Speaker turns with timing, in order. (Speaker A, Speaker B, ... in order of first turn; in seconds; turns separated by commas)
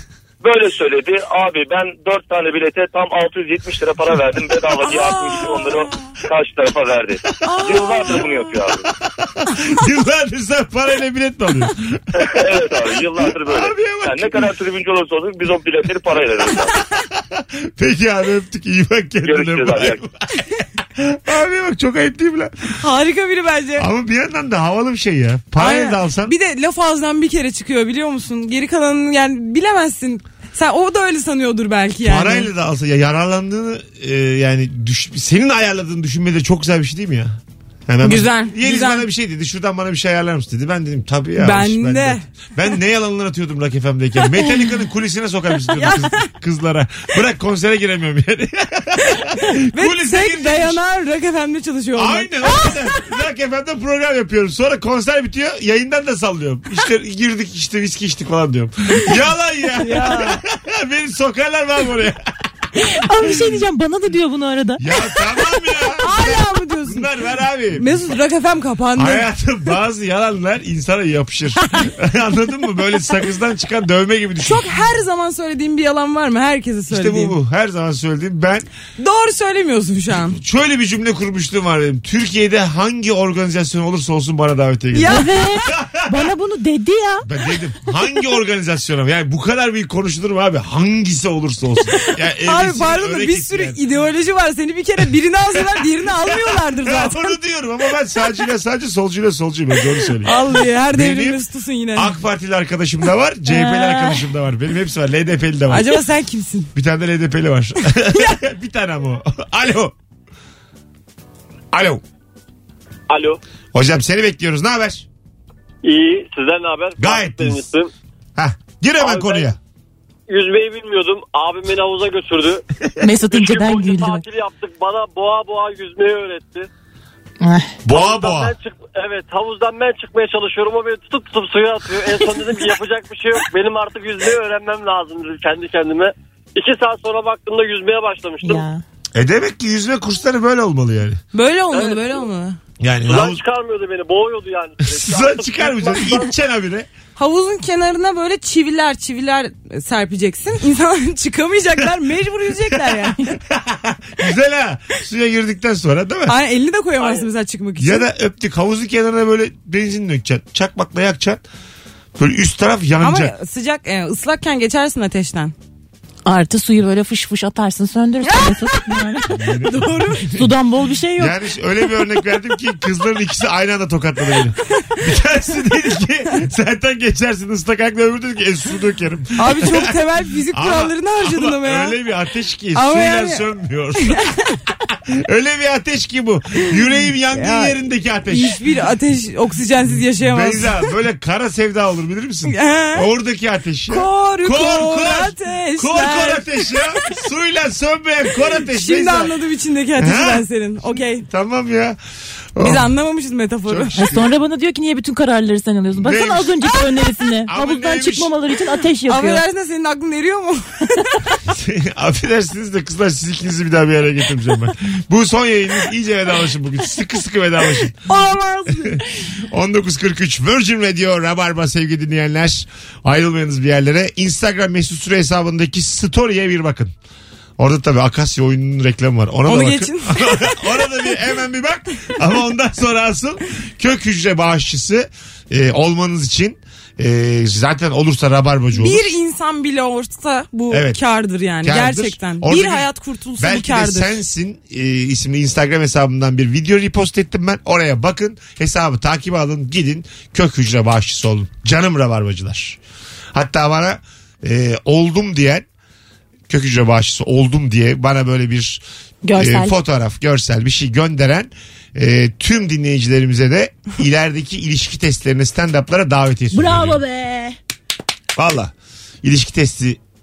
Speaker A: 0.4-8.8, Speaker B: 4.9-5.8, Speaker B: 7.4-8.6, Speaker C: 7.7-8.2, Speaker C: 9.4-12.0, Speaker A: 12.2-16.7, Speaker C: 13.1-14.5, Speaker C: 17.3-22.7, Speaker A: 19.2-20.0, Speaker B: 22.8-23.9, Speaker C: 23.8-26.3, Speaker B: 25.6-32.5, Speaker C: 32.0-50.8, Speaker B: 38.0-39.1, Speaker B: 41.4-42.2, Speaker B: 45.7-46.2, Speaker B: 49.6-52.8, Speaker C: 52.0-62.2, Speaker B: 59.8-60.4, Speaker D: 62.8-65.2, Speaker C: 63.2-63.7, Speaker C: 64.8-67.9, Speaker B: 66.0-67.1, Speaker B: 67.7-69.3, Speaker C: 69.0-74.7, Speaker B: 74.4-77.4, Speaker C: 76.9-78.7, Speaker B: 79.0-80.4, Speaker C: 80.2-86.2, Speaker B: 84.9-85.3, Speaker D: 85.1-87.3, Speaker C: 87.2-93.8, Speaker B: 92.4-97.4, Speaker C: 96.3-101.4, Speaker B: 100.2-102.2, Speaker C: 102.0-106.0, Speaker B: 103.5-104.3, Speaker B: 105.7-106.7, Speaker C: 106.7-109.9, Speaker C: 111.7-112.0, Speaker E: 113.1-113.4, Speaker C: 113.7-115.1, Speaker E: 115.8-117.9, Speaker C: 117.0-117.6, Speaker C: 118.4-119.6, Speaker E: 119.0-119.5, Speaker E: 120.3-122.6, Speaker D: 123.0-124.2, Speaker E: 123.3-126.7, Speaker D: 127.4-127.8, Speaker C: 127.8-128.5, Speaker E: 127.9-138.7, Speaker D: 138.4-138.8, Speaker C: 139.1-141.2, Speaker B: 141.3-142.6, Speaker C: 142.8-143.4, Speaker E: 143.0-146.3, Speaker C: 144.8-146.9, Speaker B: 147.2-153.4, Speaker C: 152.7-156.3, Speaker B: 156.3-158.1, Speaker C: 157.8-161.4, Speaker C: 162.2-163.3, Speaker B: 163.0-165.6, Speaker D: 166.2-169.4, Speaker B: 168.3-168.6, Speaker C: 169.3-170.5, Speaker B: 169.6-170.3, Speaker D: 170.3-171.3, Speaker C: 171.2-179.9, Speaker B: 179.4-182.0, Speaker C: 180.5-184.3, Speaker B: 182.7-183.5, Speaker B: 184.0-184.3, Speaker C: 185.1-188.6, Speaker B: 187.3-187.8, Speaker B: 188.3-190.9, Speaker C: 190.2-199.3, Speaker B: 192.5-193.1, Speaker B: 193.9-196.9, Speaker B: 198.5-201.3, Speaker C: 200.0-200.4, Speaker C: 201.0-202.0, Speaker C: 202.6-202.8, Speaker B: 202.6-203.9, Speaker C: 203.7-204.3, Speaker D: 203.9-209.4, Speaker C: 205.9-206.9, Speaker C: 207.5-208.3, Speaker B: 209.1-211.4, Speaker C: 211.4-218.0, Speaker B: 218.1-219.0, Speaker C: 218.7-226.9, Speaker C: 227.6-239.1, Speaker B: 229.5-231.2, Speaker B: 238.7-244.2, Speaker C: 240.7-241.0, Speaker C: 241.6-242.9, Speaker C: 243.4-252.8, Speaker C: 253.3-255.7, Speaker C: 256.5-258.8, Speaker D: 259.2-259.8, Speaker C: 259.4-267.0, Speaker D: 266.5-267.6, Speaker C: 268.4-270.0